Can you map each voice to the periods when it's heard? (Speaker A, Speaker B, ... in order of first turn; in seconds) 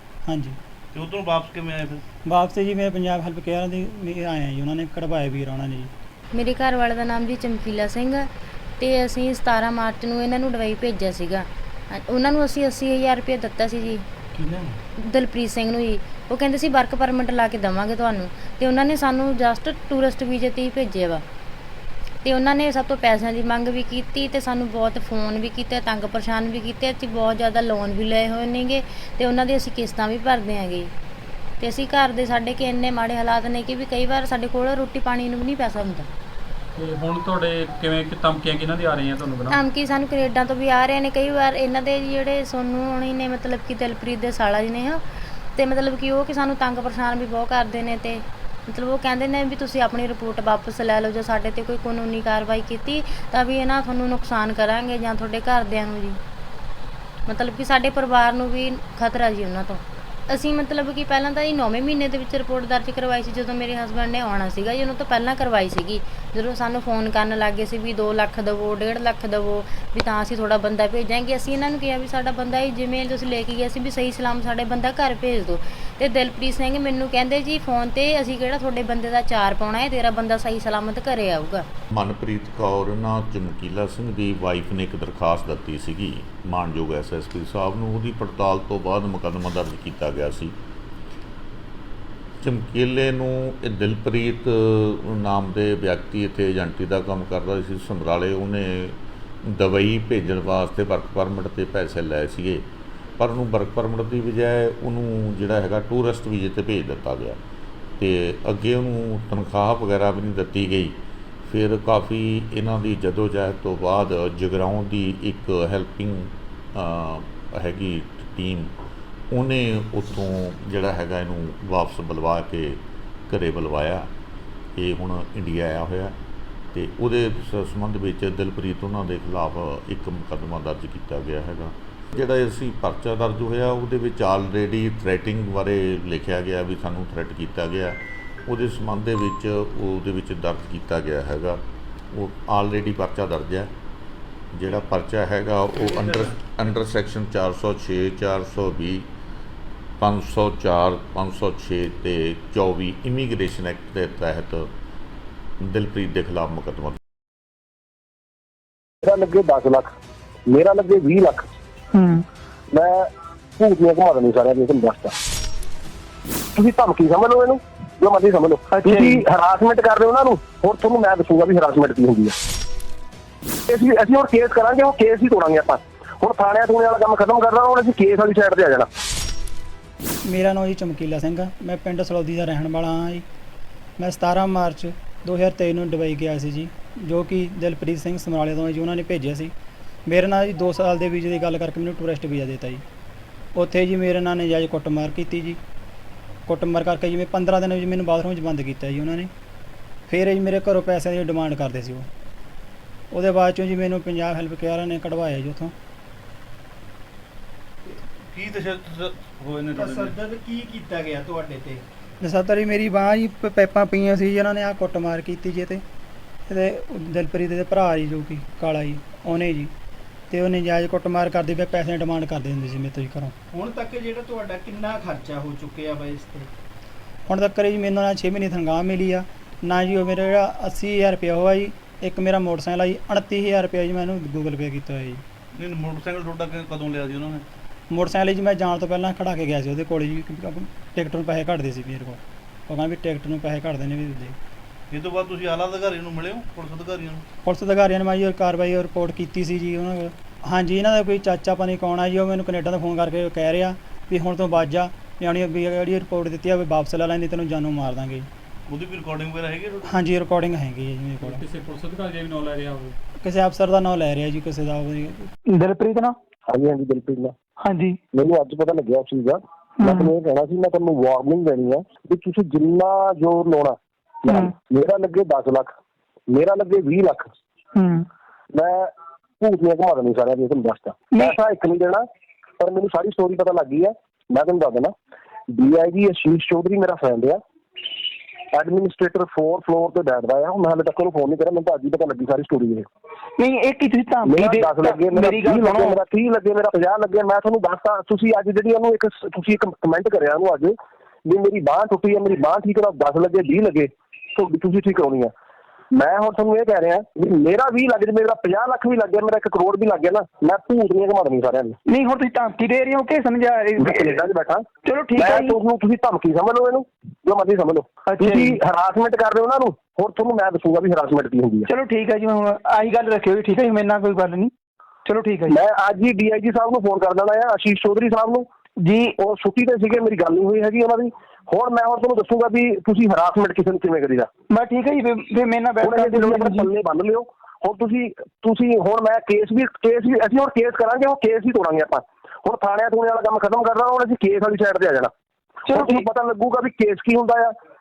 Speaker A: 0.3-0.6, 2.3-5.9, 180.3-183.2, 184.0-189.5, 190.1-192.8, 193.6-195.6, 196.5-199.3, 200.1-202.1, 203.1-205.7, 212.2-215.8, 216.5-219.7, 220.3-223.3, 227.3-235.2, 237.9-244.3, 247.4-258.3, 259.9-261.4, 263.2-265.3
Speaker B: 0.9-2.0, 207.9-210.2, 235.6-237.4, 244.9-247.2, 258.7-259.9
Speaker C: 6.3-14.0, 15.1-21.2, 22.2-30.9, 31.6-36.1, 39.5-45.0, 45.5-56.2, 57.3-81.7
Speaker D: 36.8-39.6, 261.2-263.0
Speaker E: 81.9-90.5, 92.4-102.7, 103.2-107.4, 108.0-118.7, 119.3-124.1, 124.8-126.1, 126.7-141.6, 142.1-143.7, 144.5-149.1, 150.0-154.7, 155.6-157.0
Speaker F: 159.0-159.9, 160.5-161.5, 162.7-165.1, 166.6-172.3, 173.7-178.9, 266.5-267.3, 268.1-275.7, 276.3-277.3, 278.5-282.1, 282.6-284.9, 285.5-292.9, 294.2-305.3, 305.9-311.8, 313.8-321.7, 325.5-328.5, 329.2-334.3, 335.8-345.1, 345.7-347.5
Speaker G: 209.8-211.8, 223.5-226.5
Speaker H: 265.6-266.1, 267.7-267.9, 293.4-296.0, 311.9-314.1, 314.9-315.5, 318.1-318.5, 321.7-324.5, 325.1-325.6, 328.8-329.1, 334.5-336.7, 345.7-346.1